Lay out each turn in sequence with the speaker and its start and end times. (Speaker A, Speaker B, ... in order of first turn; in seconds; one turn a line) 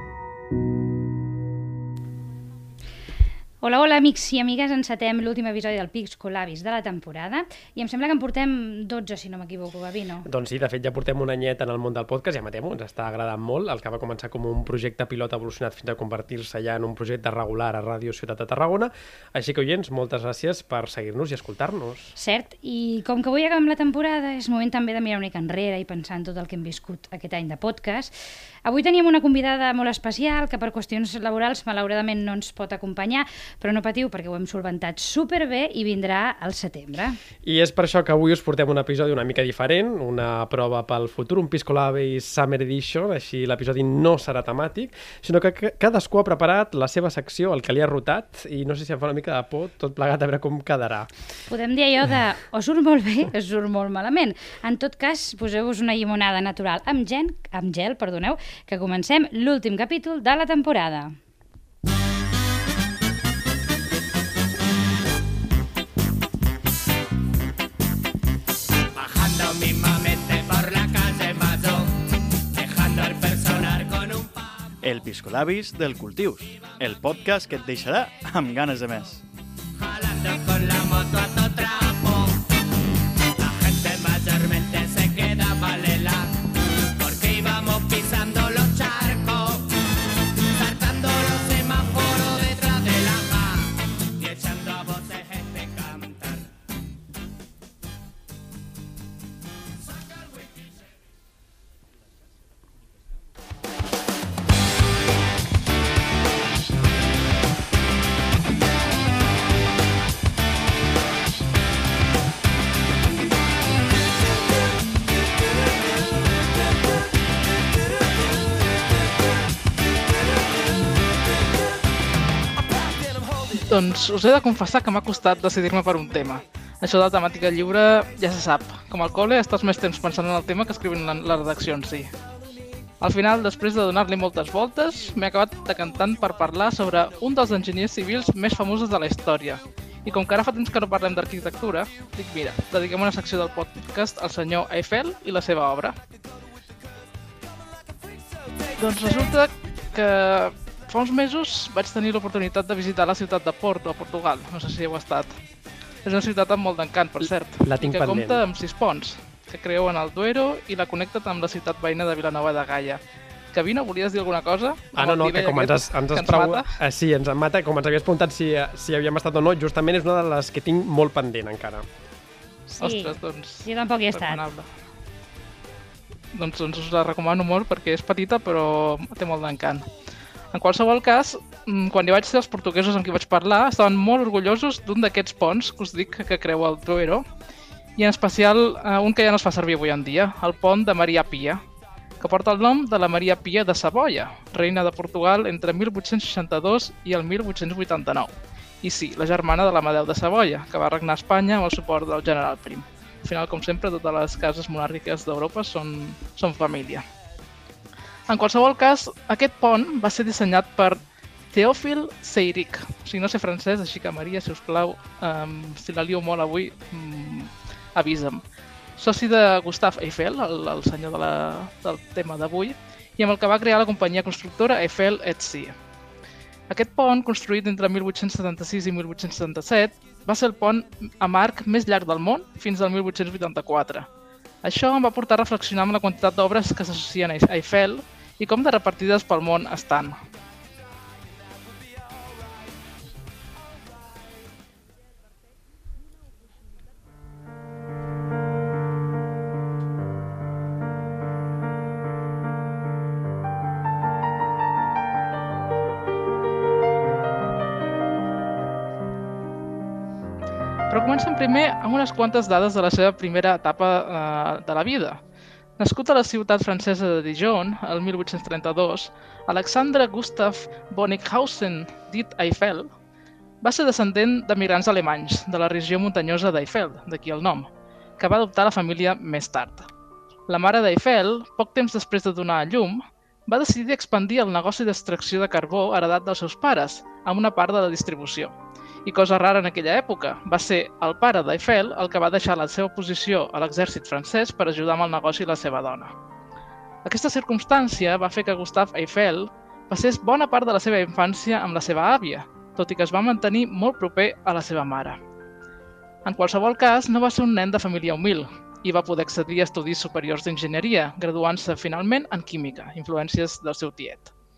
Speaker A: 3.6-10.3
Speaker B: 10.2-22.1
Speaker A: 22.2-28.1
Speaker A: 28.6-37.2
Speaker B: 37.4-51.1
Speaker A: 51.5-61.1
Speaker C: 68.9-71.9
Speaker C: 72.5-74.7
Speaker D: 74.8-79.2
Speaker C: 79.8-82.4
Speaker C: 83.4-86.3
Speaker C: 87.0-89.7
Speaker C: 90.5-96.4
Speaker E: 123.5-132.1
Speaker E: 133.0-146.0
Speaker E: 148.8-155.4
Speaker E: 156.0-163.0
Speaker B: 157.6-158.4
Speaker E: 163.5-166.7
Speaker B: 164.9-171.8
Speaker A: 172.7-174.4
Speaker E: 172.8-174.7
Speaker E: 176.3-179.8
Speaker E: 180.5-187.2
Speaker E: 188.0-191.6
Speaker E: 192.2-207.0
Speaker E: 208.3-211.0
Speaker E: 211.5-218.4
Speaker E: 219.0-225.7
Speaker E: 226.7-234.1
Speaker E: 234.6-240.2
Speaker E: 260.9-265.2
Speaker E: 265.8-272.9
Speaker E: 273.6-279.9
Speaker E: 280.5-288.5
Speaker E: 289.1-296.1
Speaker E: 297.0-305.2
Speaker E: 306.2-314.3